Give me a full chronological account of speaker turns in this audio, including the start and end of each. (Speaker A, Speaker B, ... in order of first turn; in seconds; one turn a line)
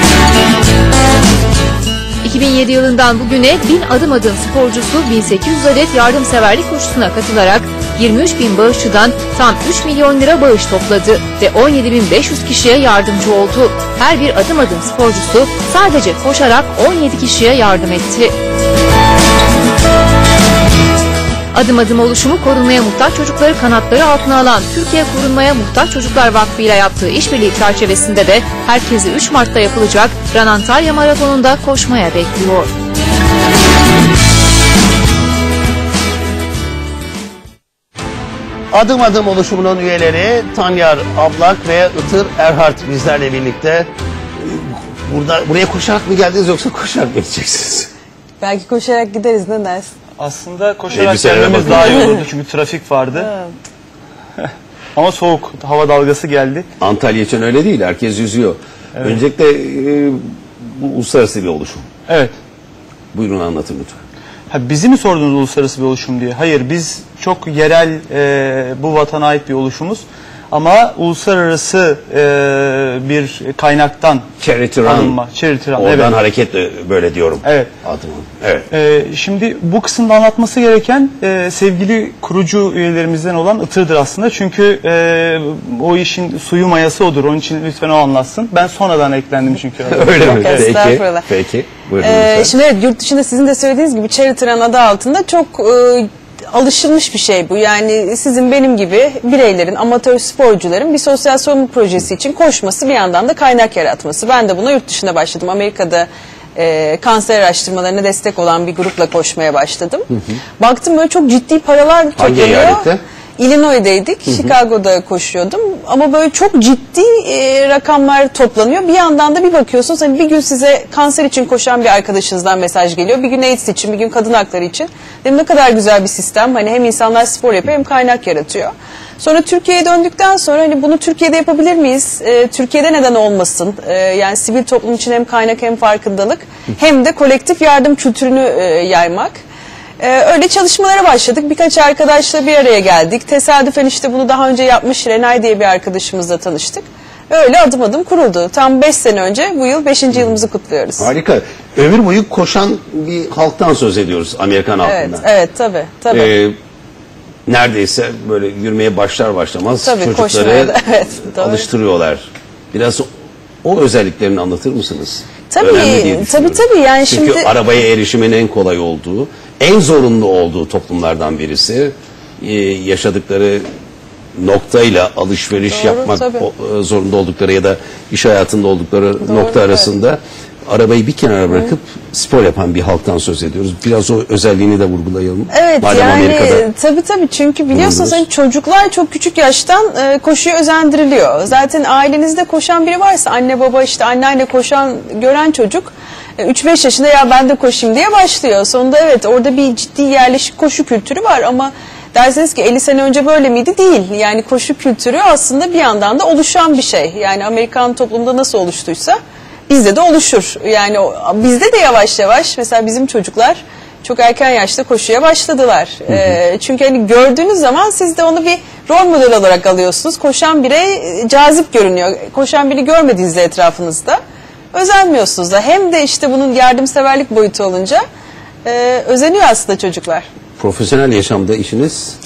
Speaker A: 2.2-18.3
Speaker A: 21.5-32.7
Speaker B: 38.7-43.9
Speaker B: 44.4-47.9
Speaker C: 48.4-49.9
Speaker D: 50.2-53.3
Speaker B: 50.9-52.1
Speaker C: 53.1-53.5
Speaker D: 55.0-56.7
Speaker B: 56.8-61.9
Speaker B: 63.1-64.0
Speaker D: 64.5-74.3
Speaker B: 74.4-75.2
Speaker D: 74.8-76.2
Speaker B: 75.8-78.7
Speaker D: 77.4-77.7
Speaker D: 78.7-90.7
Speaker B: 89.9-92.5
Speaker C: 90.0-91.3
Speaker C: 92.0-139.4
Speaker B: 112.2-113.0
Speaker B: 114.3-114.5
Speaker C: 140.0-151.1
Speaker B: 151.0-155.2
Speaker C: 154.8-156.3
Speaker B: 156.1-156.6
Speaker B: 157.5-160.8
Speaker C: 159.8-161.7
Speaker B: 161.3-163.1
Speaker B: 163.6-173.7
Speaker C: 165.5-167.5
Speaker B: 174.3-186.7
Speaker C: 175.7-176.5
Speaker C: 179.2-179.9
Speaker C: 185.5-209.2
Speaker B: 187.7-188.2
Speaker C: 209.7-224.2
Speaker C: 224.7-228.0
Speaker C: 228.7-230.3
Speaker B: 230.6-232.2